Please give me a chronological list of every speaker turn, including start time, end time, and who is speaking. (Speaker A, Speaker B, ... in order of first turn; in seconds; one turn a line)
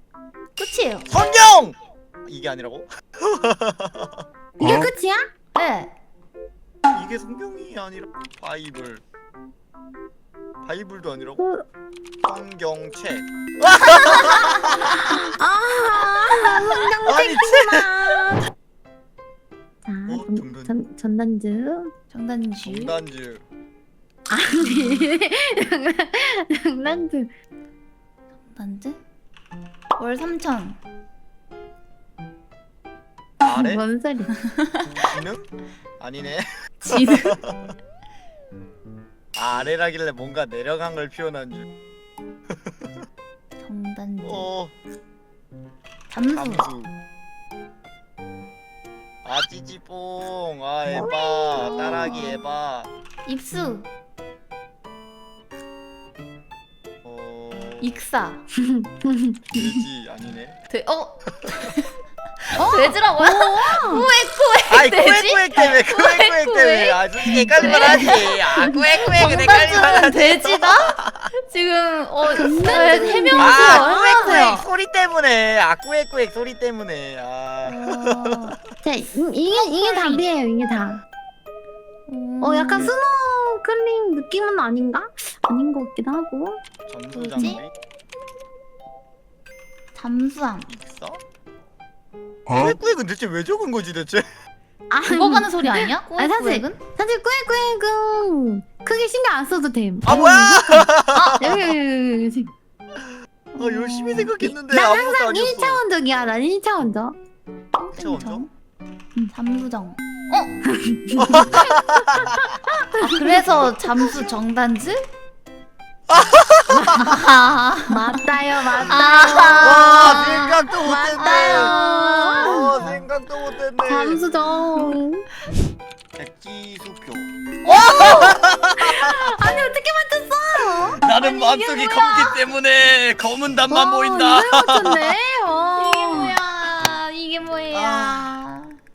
Speaker A: 0.6-1.1
Speaker B: 1.1-4.2
Speaker C: 4.6-5.3
Speaker A: 5.5-5.9
Speaker B: 6.9-9.0
Speaker B: 10.6-11.5
Speaker C: 11.4-11.7
Speaker B: 12.2-15.2
Speaker C: 13.9-18.4
Speaker A: 16.3-16.8
Speaker B: 17.0-18.2
Speaker C: 19.9-21.9
Speaker B: 20.1-20.8
Speaker A: 22.1-22.9
Speaker B: 22.6-23.4
Speaker C: 24.3-27.3
Speaker A: 28.5-29.0
Speaker A: 30.0-30.8
Speaker B: 33.4-33.8
Speaker C: 33.5-34.3
Speaker B: 35.0-35.5
Speaker B: 36.0-37.7
Speaker A: 36.8-37.4
Speaker B: 39.4-41.7
Speaker B: 42.7-43.0
Speaker A: 43.6-44.5
Speaker B: 44.2-44.8
Speaker A: 46.1-46.7
Speaker B: 46.2-46.9
Speaker B: 49.2-52.9
Speaker C: 51.0-52.0
Speaker A: 51.6-52.4
Speaker A: 53.2-53.9
Speaker B: 57.0-58.0
Speaker A: 57.8-58.5
Speaker C: 58.5-59.5
Speaker B: 59.5-60.6
Speaker A: 60.7-61.9
Speaker A: 62.5-74.7
Speaker C: 62.6-64.1
Speaker B: 64.7-71.3
Speaker C: 67.3-68.2
Speaker C: 72.3-74.4
Speaker B: 72.9-78.4
Speaker A: 77.6-80.3
Speaker C: 78.8-81.0
Speaker A: 82.1-82.9
Speaker C: 82.4-86.6
Speaker B: 86.9-87.7
Speaker A: 87.1-87.6
Speaker A: 89.9-90.7
Speaker B: 90.7-91.2
Speaker B: 92.5-94.2
Speaker C: 94.9-102.5
Speaker A: 95.1-96.8
Speaker B: 100.0-101.7
Speaker A: 101.2-101.7
Speaker A: 103.5-104.6
Speaker B: 103.6-105.8
Speaker C: 104.0-107.2
Speaker A: 107.8-108.5
Speaker B: 108.0-108.5
Speaker A: 109.2-110.6
Speaker C: 110.7-113.4
Speaker B: 111.2-112.5
Speaker A: 113.0-115.0
Speaker B: 116.1-117.1
Speaker C: 116.7-117.1
Speaker A: 116.9-118.3
Speaker C: 117.9-122.9
Speaker A: 118.8-123.0
Speaker B: 119.4-121.8
Speaker B: 122.4-124.8
Speaker C: 123.8-125.2
Speaker B: 126.2-129.3
Speaker A: 127.6-128.4
Speaker C: 128.0-128.3
Speaker C: 128.8-131.0
Speaker B: 130.6-135.2
Speaker A: 131.2-132.4
Speaker C: 133.7-136.4
Speaker A: 135.8-138.8
Speaker B: 137.7-138.3